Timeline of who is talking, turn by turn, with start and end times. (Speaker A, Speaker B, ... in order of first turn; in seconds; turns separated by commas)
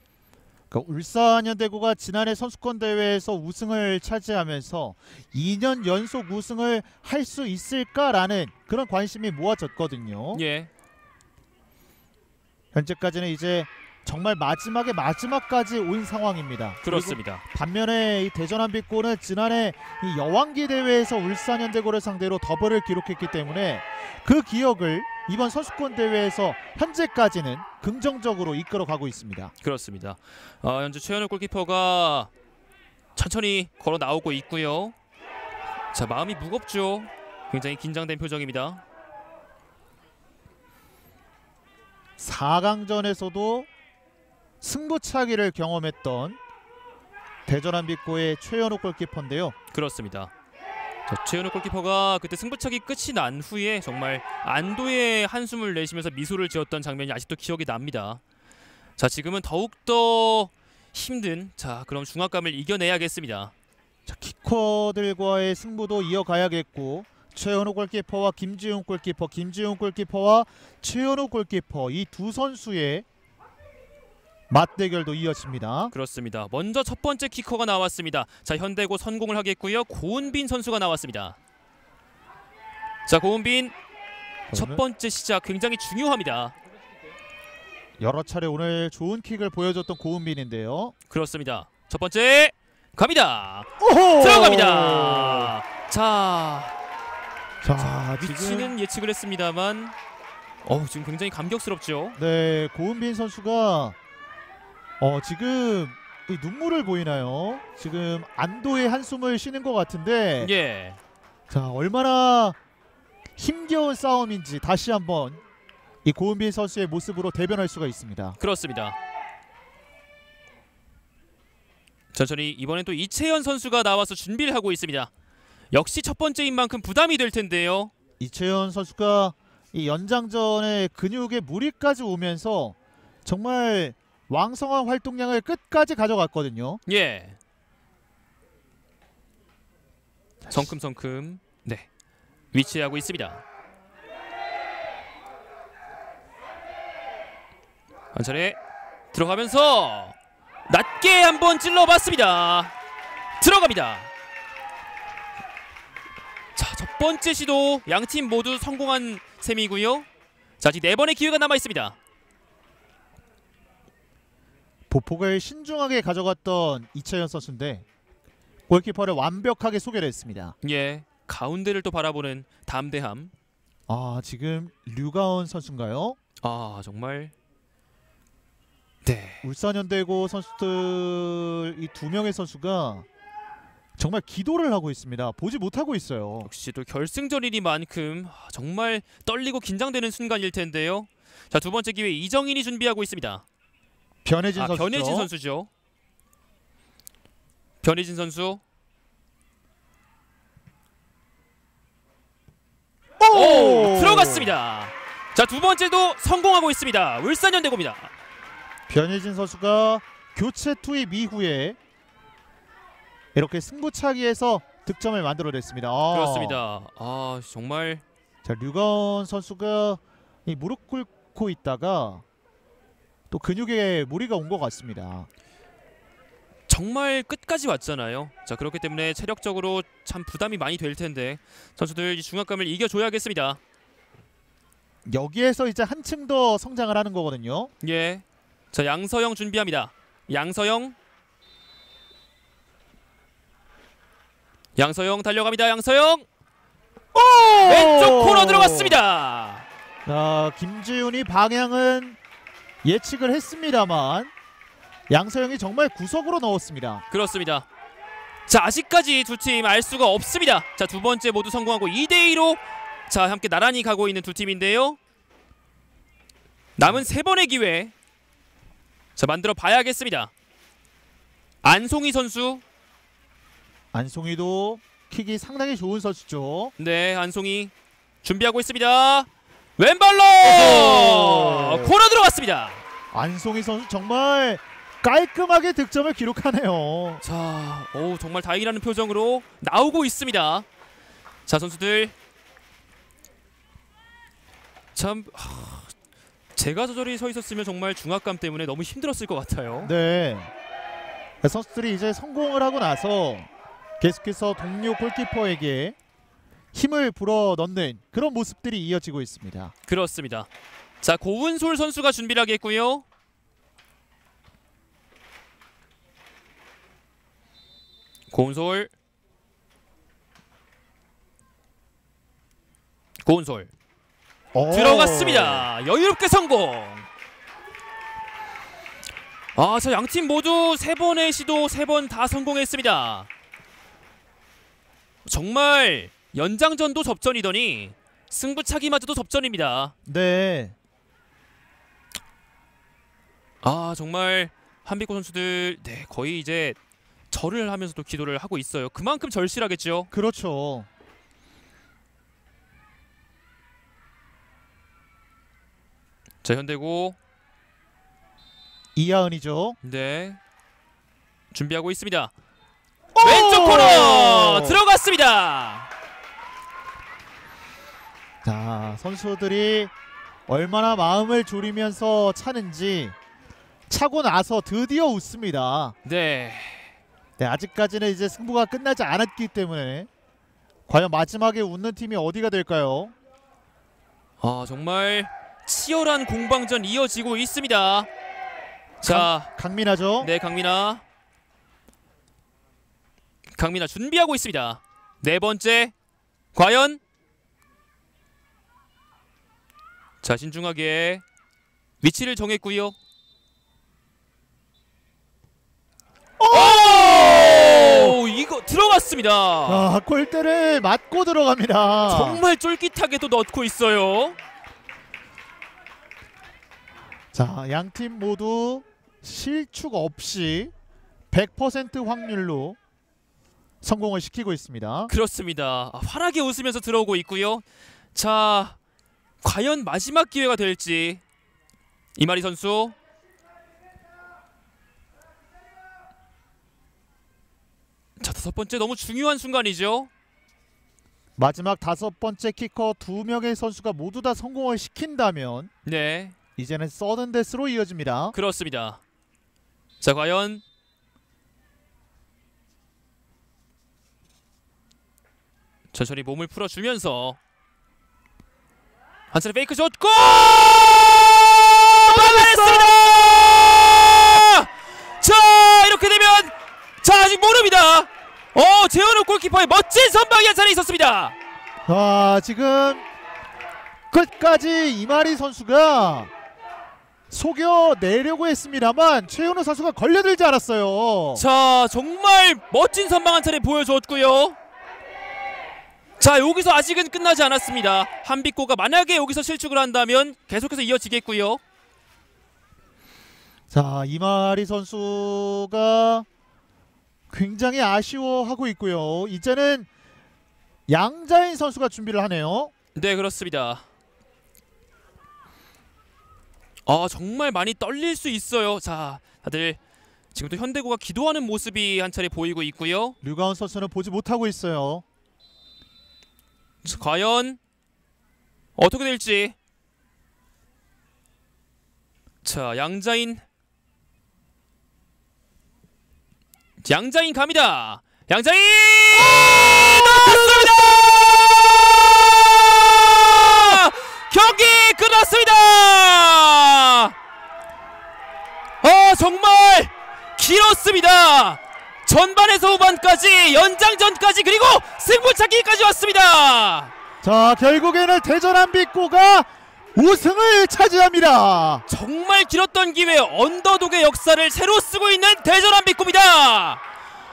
Speaker A: 0.7-10.4, Speaker B: 10.3-10.7, Speaker A: 12.7-29.5, Speaker B: 16.8-17.4, Speaker B: 29.6-32.3, Speaker B: 33.2-35.0, Speaker B: 35.9-38.8, Speaker A: 42.2-43.7, Speaker A: 44.6-46.4, Speaker A: 47.5-49.5, Speaker B: 49.7-50.3, Speaker B: 51.1-58.2, Speaker B: 59.0-63.5, Speaker A: 64.1-73.0, Speaker A: 74.5-75.9, Speaker B: 75.9-81.4, Speaker B: 83.1-83.7, Speaker A: 84.5-84.8, Speaker B: 84.5-86.5, Speaker A: 88.0-90.9, Speaker B: 91.1-93.7, Speaker A: 93.8-95.5, Speaker B: 94.2-96.8, Speaker A: 97.6-98.8, Speaker B: 97.8-100.0, Speaker B: 100.7-102.2, Speaker A: 102.2-104.0, Speaker A: 105.0-110.5, Speaker B: 110.4-111.0, Speaker A: 111.5-112.6, Speaker A: 113.4-115.4, Speaker A: 116.0-118.4, Speaker B: 118.4-119.0, Speaker B: 122.1-125.1, Speaker B: 125.7-127.9, Speaker A: 128.2-136.8, Speaker B: 136.9-137.4, Speaker B: 140.5-141.9, Speaker B: 142.5-143.4, Speaker B: 148.1-148.6, Speaker B: 149.1-150.2, Speaker B: 150.7-152.7, Speaker B: 153.4-154.1, Speaker B: 156.6-160.1, Speaker B: 160.6-162.0, Speaker A: 164.9-167.8, Speaker A: 168.7-170.6, Speaker B: 170.6-173.3, Speaker A: 173.9-176.2, Speaker B: 176.4-177.3, Speaker B: 179.0-179.4, Speaker A: 179.4-183.1, Speaker A: 184.0-186.5, Speaker B: 186.4-193.4, Speaker A: 194.2-195.3, Speaker B: 194.6-195.7, Speaker B: 197.8-198.6, Speaker A: 203.2-204.5, Speaker B: 203.3-208.1, Speaker A: 208.9-211.8, Speaker A: 213.3-216.6, Speaker B: 216.1-218.0, Speaker A: 218.4-222.2, Speaker A: 223.3-225.3, Speaker B: 226.7-233.6, Speaker A: 235.1-237.7, Speaker B: 237.8-241.0, Speaker B: 244.8-246.3, Speaker A: 247.1-249.0, Speaker B: 247.6-249.7, Speaker A: 250.1-252.2, Speaker A: 252.8-254.3, Speaker A: 255.1-257.0, Speaker B: 257.1-257.7, Speaker B: 258.5-265.0, Speaker B: 266.8-267.9, Speaker B: 269.2-270.3, Speaker B: 271.6-272.6, Speaker A: 273.9-276.7, Speaker B: 276.8-277.7, Speaker B: 278.2-282.8, Speaker A: 280.4-281.9, Speaker A: 283.1-287.2, Speaker B: 287.2-290.7, Speaker B: 291.5-292.1, Speaker B: 294.9-295.9, Speaker B: 296.6-299.9, Speaker A: 299.8-300.5, Speaker A: 301.4-303.5, Speaker A: 304.0-306.0, Speaker A: 306.7-309.7, Speaker B: 309.9-310.5, Speaker B: 311.0-313.1, Speaker B: 318.3-318.9, Speaker B: 323.2-323.7, Speaker A: 324.5-325.7, Speaker B: 324.7-327.1, Speaker B: 329.6-333.3, Speaker B: 335.3-339.9, Speaker A: 340.1-340.8, Speaker B: 343.6-346.8, Speaker B: 347.3-350.1, Speaker A: 350.1-350.9, Speaker B: 356.4-357.2, Speaker A: 359.0-359.8, Speaker B: 359.8-360.4, Speaker B: 361.5-362.3, Speaker A: 363.1-364.8, Speaker B: 363.2-365.9, Speaker A: 368.4-369.9, Speaker A: 370.5-373.1, Speaker A: 373.9-375.9, Speaker B: 376.1-376.9, Speaker A: 377.4-380.1, Speaker A: 380.9-383.1, Speaker B: 384.4-388.1, Speaker B: 389.0-389.5, Speaker A: 389.1-390.3, Speaker B: 390.2-391.0, Speaker B: 393.6-395.9, Speaker B: 396.5-397.0, Speaker B: 400.2-401.2, Speaker B: 402.0-403.0, Speaker A: 406.4-408.2, Speaker B: 406.5-409.9, Speaker A: 409.7-412.4, Speaker B: 412.1-414.4, Speaker A: 417.3-420.7, Speaker A: 421.3-422.8, Speaker A: 423.8-425.1, Speaker B: 425.1-428.8, Speaker B: 429.4-431.2, Speaker B: 432.2-432.9, Speaker B: 438.2-440.1, Speaker A: 441.4-445.7, Speaker B: 445.9-446.4, Speaker A: 446.6-448.4, Speaker B: 448.3-449.0, Speaker B: 450.0-450.6, Speaker B: 455.9-457.4, Speaker B: 459.3-471.4, Speaker A: 462.1-463.0, Speaker A: 471.9-473.1, Speaker A: 474.1-476.3, Speaker A: 477.3-481.4, Speaker B: 481.4-484.6, Speaker B: 486.2-491.6, Speaker A: 493.7-496.3, Speaker A: 497.3-499.9, Speaker A: 500.9-502.7, Speaker B: 502.9-503.9, Speaker B: 506.9-509.8, Speaker B: 510.3-513.2, Speaker A: 513.2-515.0, Speaker B: 516.8-517.6, Speaker B: 518.8-519.6, Speaker B: 522.4-523.4, Speaker B: 526.8-537.1, Speaker A: 529.2-530.8, Speaker B: 538.8-546.9, Speaker A: 547.2-551.9, Speaker B: 551.9-556.8